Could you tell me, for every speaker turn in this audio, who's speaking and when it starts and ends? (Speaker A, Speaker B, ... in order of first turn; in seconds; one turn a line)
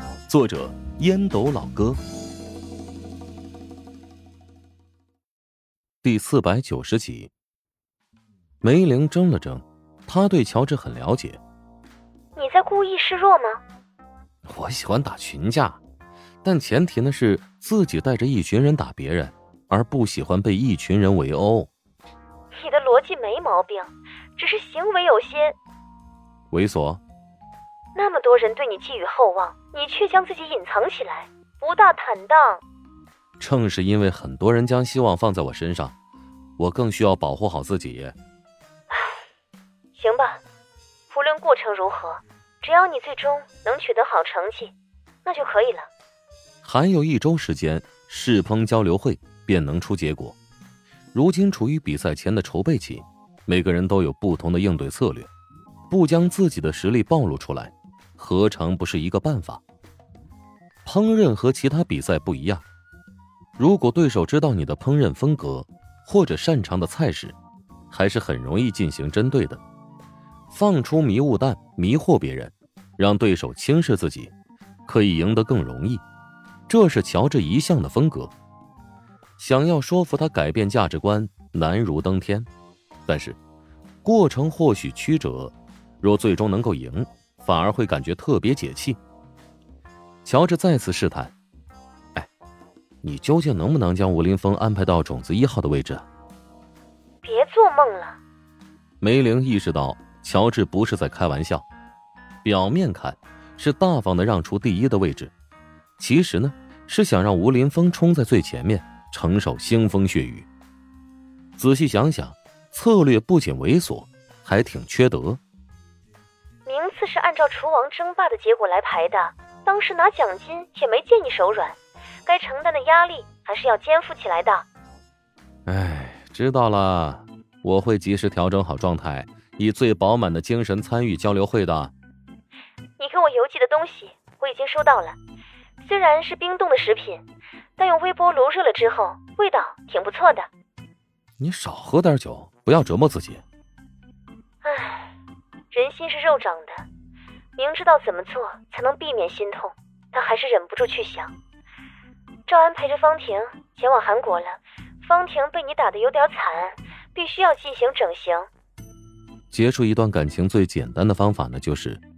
Speaker A: 0.3-2.0
Speaker A: 6.0-7.3
Speaker A: 8.6-11.4
Speaker B: 12.3-13.6
Speaker A: 14.5-15.8
Speaker A: 16.4-21.7
Speaker B: 22.6-25.6
Speaker A: 26.5-27.0
Speaker B: 27.9-32.6
Speaker A: 33.4-35.9
Speaker A: 36.6-38.1
Speaker B: 40.0-40.4
Speaker B: 41.1-44.7
Speaker B: 45.2-45.9
Speaker A: 46.6-50.4
Speaker A: 51.1-55.3
Speaker A: 55.9-59.6
Speaker A: 60.9-62.6
Speaker A: 63.6-67.3
Speaker A: 67.9-69.6
Speaker A: 70.5-74.3
Speaker A: 74.9-76.0
Speaker A: 76.7-78.3
Speaker A: 79.4-82.5
Speaker A: 83.1-83.4
Speaker A: 84.0-89.0
Speaker A: 90.2-91.3
Speaker A: 93.0-96.0
Speaker B: 97.2-98.2
Speaker A: 99.0-101.6
Speaker A: 102.4-105.3
Speaker A: 106.0-110.5
Speaker A: 111.6-115.4
Speaker B: 116.7-124.6
Speaker A: 125.7-131.9
Speaker B: 133.0-135.2
Speaker B: 135.8-137.2
Speaker B: 137.8-140.5
Speaker A: 141.4-143.4
Speaker B: 144.6-145.1
Speaker B: 145.7-146.8
Speaker B: 147.6-151.3
Speaker B: 152.5-158.5
Speaker A: 159.5-162.0